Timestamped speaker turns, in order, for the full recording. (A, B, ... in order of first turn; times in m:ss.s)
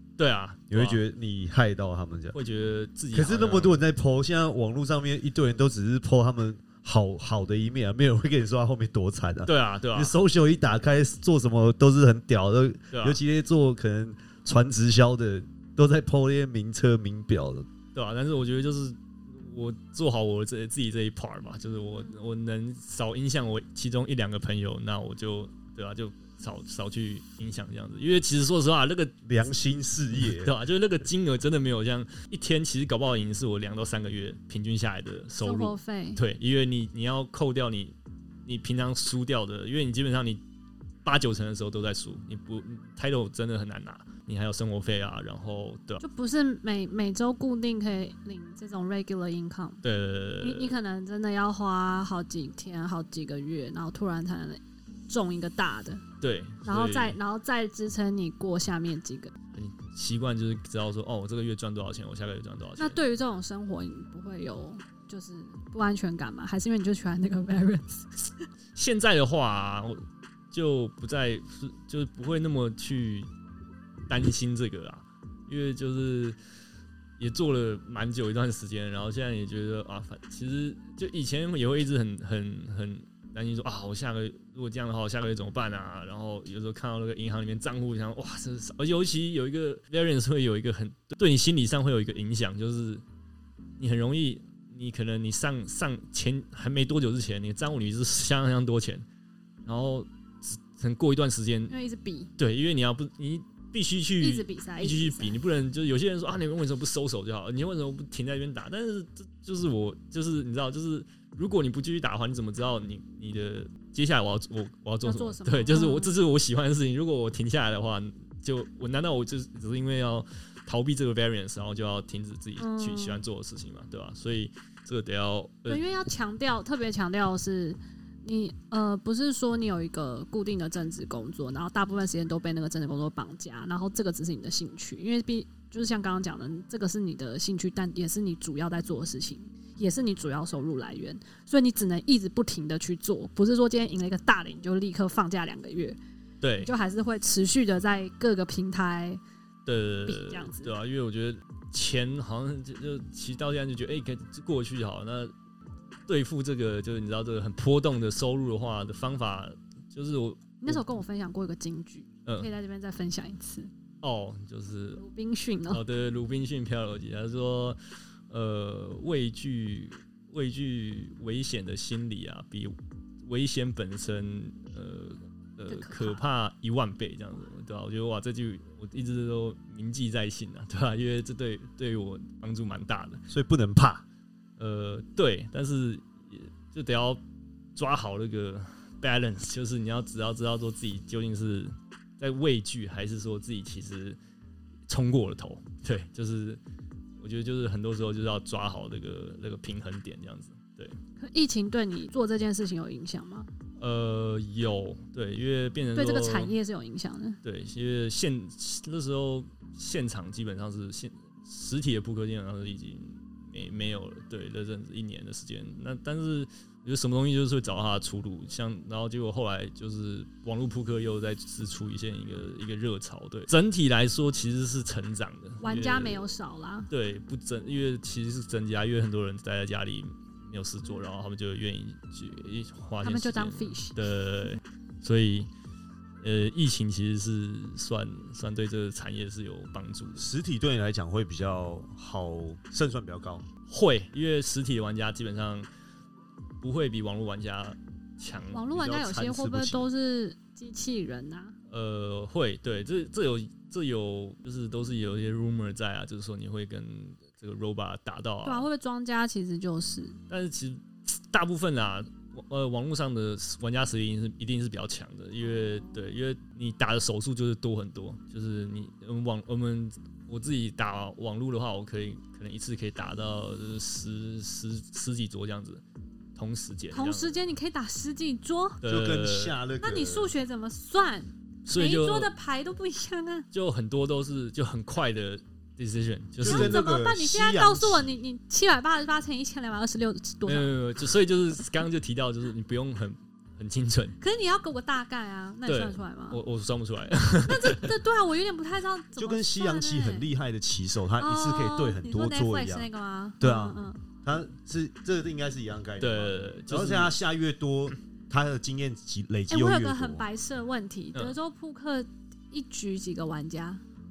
0:00.2-0:01.0 A
0:00.7-0:02.4 B
0:02.3-0:03.8 A
0:03.1-0:17.7 B
0:09.5-0:10.1 A
0:12.9-0:13.2 A
0:17.9-0:29.2 A
0:29.2-0:30.5 B
0:30.2-0:38.0 A
0:35.4-0:36.2 C
0:38.5-0:40.4 A
0:41.0-0:46.0 A
0:46.0-0:49.8 C
0:49.8-0:50.8 A
0:50.4-0:56.0 C
0:56.2-0:57.2 A
0:56.7-0:59.3 C
0:59.5-1:03.0 A
1:02.8-1:08.4 C
1:08.8-1:10.0 A
1:10.5-1:13.3 A
1:14.1-1:16.4 A
1:17.2-1:33.0 A
1:33.8-1:39.0 A
1:39.6-1:41.7 A
1:41.7-1:42.3 C
1:42.4-2:05.8 A
1:44.2-1:45.4 C
1:55.0-1:56.2 C
2:02.6-2:03.2 C
2:05.7-2:26.0 C
2:26.4-2:26.7 A
2:26.6-2:29.2 C
2:29.7-2:35.3 A
2:30.1-2:30.7 C
2:36.1-2:40.8 A
2:40.6-2:43.7 C
2:44.0-2:45.0 A
2:45.0-2:45.8 C
2:45.7-2:47.8 A
2:48.3-2:52.7 A
2:53.2-3:03.2 A
2:55.7-2:56.2 C
3:03.3-3:04.0 B
3:04.6-3:07.2 A
3:07.8-3:14.2 A
3:14.9-3:16.6 A
3:17.2-3:21.0 A
3:21.2-3:23.5 C
3:23.8-3:26.5 A
3:26.0-3:27.4 C
3:27.4-3:46.3 A
3:45.6-3:46.9 C
3:46.9-3:55.5 A
3:53.0-3:54.0 C
3:56.2-4:00.2 A
4:00.2-4:03.5 B
4:03.7-4:05.7 A
4:06.6-4:08.7 A
4:08.5-4:11.6 C
4:08.8-4:09.9 B
4:11.7-4:18.7 A
4:18.4-4:20.2 C
4:20.3-4:35.8 A
4:25.7-4:26.1 C
4:36.4-4:37.4 A
4:36.9-4:38.8 C
4:38.8-4:39.6 A
4:38.8-4:40.3 B
4:39.8-4:43.5 C
4:41.6-4:42.3 A
4:43.5-4:46.8 A
4:46.4-4:48.1 B
4:46.4-4:50.7 C
4:50.5-4:54.2 A
4:54.2-4:56.4 C
4:55.7-4:57.9 A
4:57.5-5:00.3 C
4:59.2-5:02.9 B
5:01.2-5:04.0 C
5:03.4-5:10.2 B
5:06.0-5:07.2 A
5:09.5-5:13.8 C